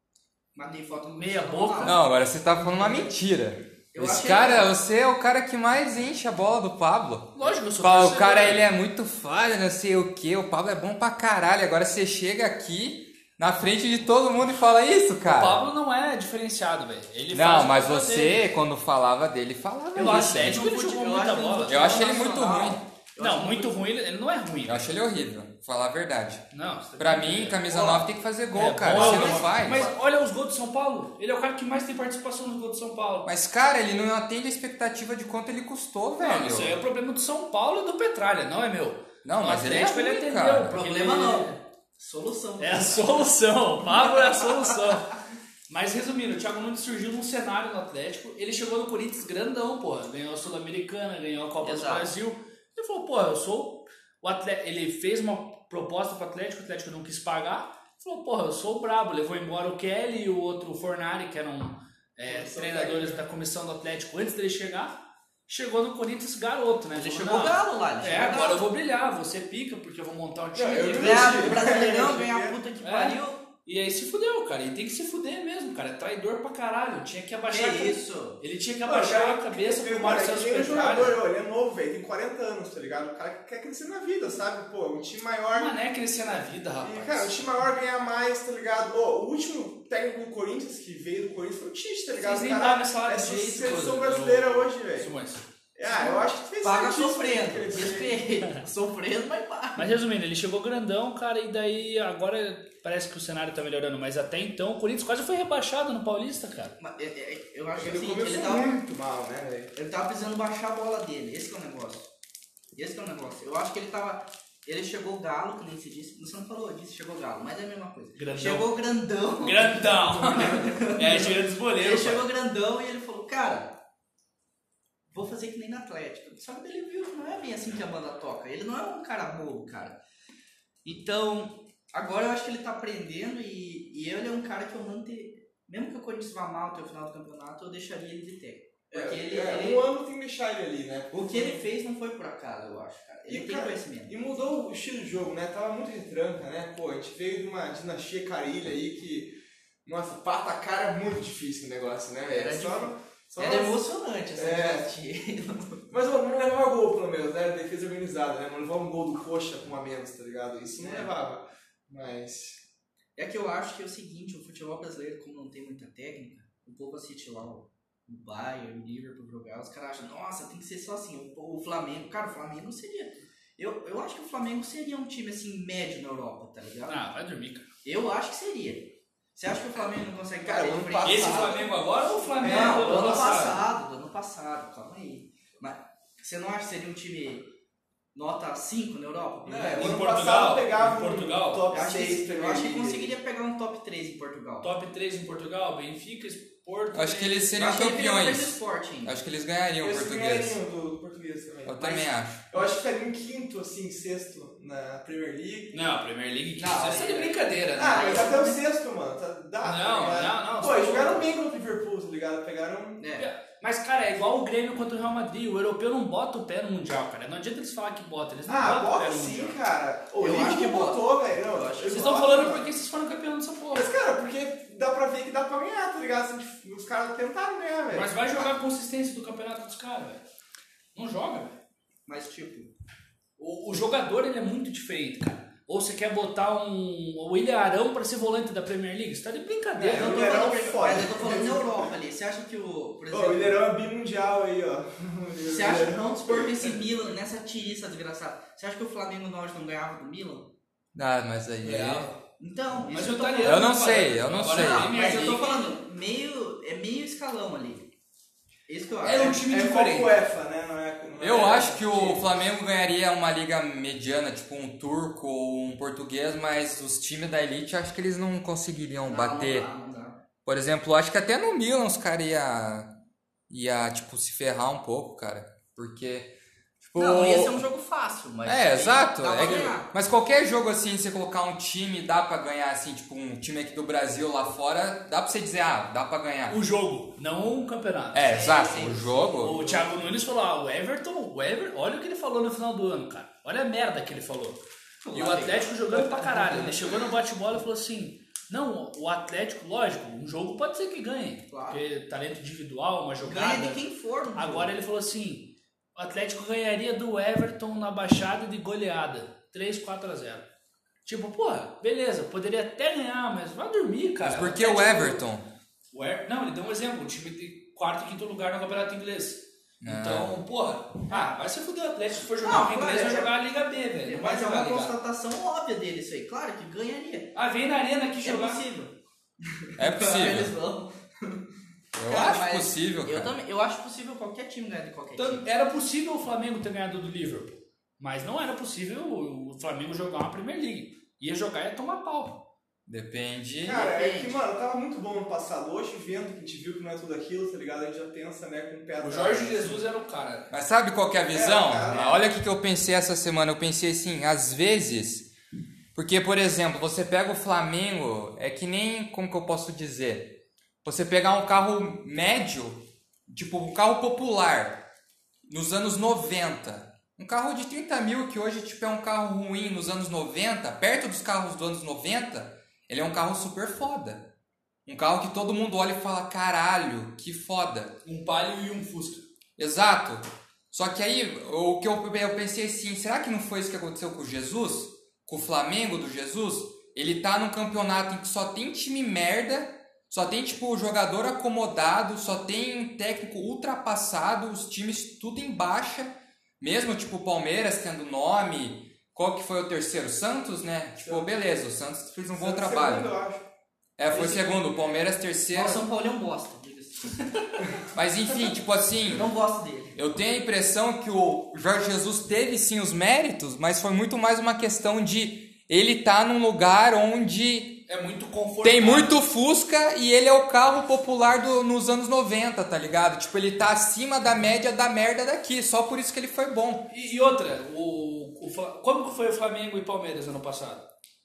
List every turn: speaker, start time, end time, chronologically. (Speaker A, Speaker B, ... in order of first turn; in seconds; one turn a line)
Speaker A: 0.6-2.0
Speaker B: 1.2-2.0
Speaker C: 1.8-15.7
Speaker A: 2.8-3.1
Speaker A: 3.9-4.7
Speaker B: 7.4-8.8
Speaker B: 15.2-18.5
Speaker C: 17.3-20.6
Speaker B: 19.9-22.0
Speaker A: 20.0-23.8
Speaker C: 21.7-22.8
Speaker B: 23.2-24.9
Speaker C: 24.6-29.9
Speaker B: 26.5-33.3
Speaker A: 28.9-29.9
Speaker C: 33.2-36.8
Speaker B: 36.2-41.6
Speaker C: 39.2-40.8
Speaker A: 40.7-43.3
Speaker B: 42.6-71.6
Speaker A: 43.9-44.8
Speaker A: 51.6-52.1
Speaker D: 62.3-63.2
Speaker A: 66.9-68.7
Speaker D: 70.5-72.6
Speaker A: 71.0-73.4
Speaker B: 72.8-81.2
Speaker A: 77.5-78.4
Speaker D: 78.8-85.7
Speaker B: 85.5-87.5
Speaker D: 86.8-95.1
Speaker B: 92.2-95.5
Speaker D: 95.8-98.2
Speaker A: 95.9-100.0
Speaker B: 99.8-106.8
Speaker A: 106.8-108.8
Speaker D: 107.8-109.7
Speaker A: 109.8-112.1
Speaker A: 112.8-123.7
Speaker B: 118.2-118.8
Speaker B: 119.4-122.2
Speaker A: 125.1-130.0
Speaker A: 130.8-139.8
Speaker D: 138.9-141.6
Speaker A: 141.1-144.1
Speaker D: 143.3-149.3
Speaker D: 149.8-153.8
Speaker A: 152.3-155.9
Speaker D: 154.4-154.9
Speaker D: 155.9-162.6
Speaker A: 160.8-161.1
Speaker A: 163.2-177.1
Speaker B: 176.9-177.7
Speaker A: 177.8-181.7
Speaker D: 180.4-181.8
Speaker B: 181.0-183.6
Speaker D: 182.4-183.4
Speaker A: 182.4-187.5
Speaker A: 188.2-190.0
Speaker D: 189.4-193.2
Speaker B: 189.8-191.7
Speaker A: 191.7-194.7
Speaker B: 194.6-197.5
Speaker C: 196.9-200.6
Speaker A: 197.6-199.2
Speaker D: 199.8-205.8
Speaker C: 201.7-202.4
Speaker B: 205.7-208.3
Speaker A: 206.6-208.6
Speaker D: 207.8-213.0
Speaker B: 209.6-211.3
Speaker A: 213.0-213.3
Speaker B: 213.2-219.6
Speaker D: 218.5-222.7
Speaker A: 220.2-222.2
Speaker B: 221.9-223.9
Speaker D: 223.7-228.5
Speaker B: 227.9-230.2
Speaker B: 230.9-231.6
Speaker A: 232.1-232.7
Speaker B: 233.4-240.4
Speaker D: 239.8-241.9
Speaker A: 239.9-243.6
Speaker D: 243.1-246.8
Speaker A: 245.5-250.5
Speaker C: 250.9-252.1
Speaker B: 251.6-252.2
Speaker A: 252.4-257.9
Speaker B: 252.9-255.6
Speaker C: 253.4-255.0
Speaker A: 258.7-259.4
Speaker B: 259.0-260.2
Speaker D: 259.2-262.3
Speaker C: 261.2-269.7
Speaker A: 269.1-270.2
Speaker C: 270.4-272.9
Speaker C: 273.5-277.6
Speaker A: 277.0-279.9
Speaker C: 278.4-286.6
Speaker B: 286.5-288.5
Speaker C: 288.1-289.6
Speaker A: 288.2-289.9
Speaker B: 289.4-303.8
Speaker A: 295.0-296.9
Speaker A: 301.5-301.8
Speaker A: 303.2-304.7
Speaker B: 304.4-310.4
Speaker B: 311.1-315.2
Speaker C: 314.2-315.5
Speaker B: 315.9-325.0
Speaker C: 319.8-320.4
Speaker A: 321.1-321.3
Speaker A: 322.4-323.3
Speaker A: 324.0-327.3
Speaker B: 327.4-328.6
Speaker A: 328.2-331.4
Speaker C: 329.8-330.5
Speaker C: 331.9-333.3
Speaker A: 332.1-335.4
Speaker B: 335.2-342.5
Speaker C: 342.9-343.9
Speaker D: 343.6-349.8
Speaker A: 343.7-344.4
Speaker B: 349.0-350.5
Speaker C: 350.5-355.3
Speaker D: 351.3-352.2
Speaker C: 355.9-364.8
Speaker C: 365.5-374.3
Speaker C: 374.9-377.9
Speaker B: 378.0-379.2
Speaker C: 379.6-403.1
Speaker D: 401.0-401.3
Speaker D: 402.3-403.4
Speaker C: 404.0-405.9
Speaker A: 404.1-404.5
Speaker A: 405.5-407.7
Speaker C: 407.9-409.3
Speaker A: 409.1-410.0
Speaker C: 409.9-417.9
Speaker B: 417.9-419.2
Speaker C: 418.6-426.9
Speaker B: 426.9-430.9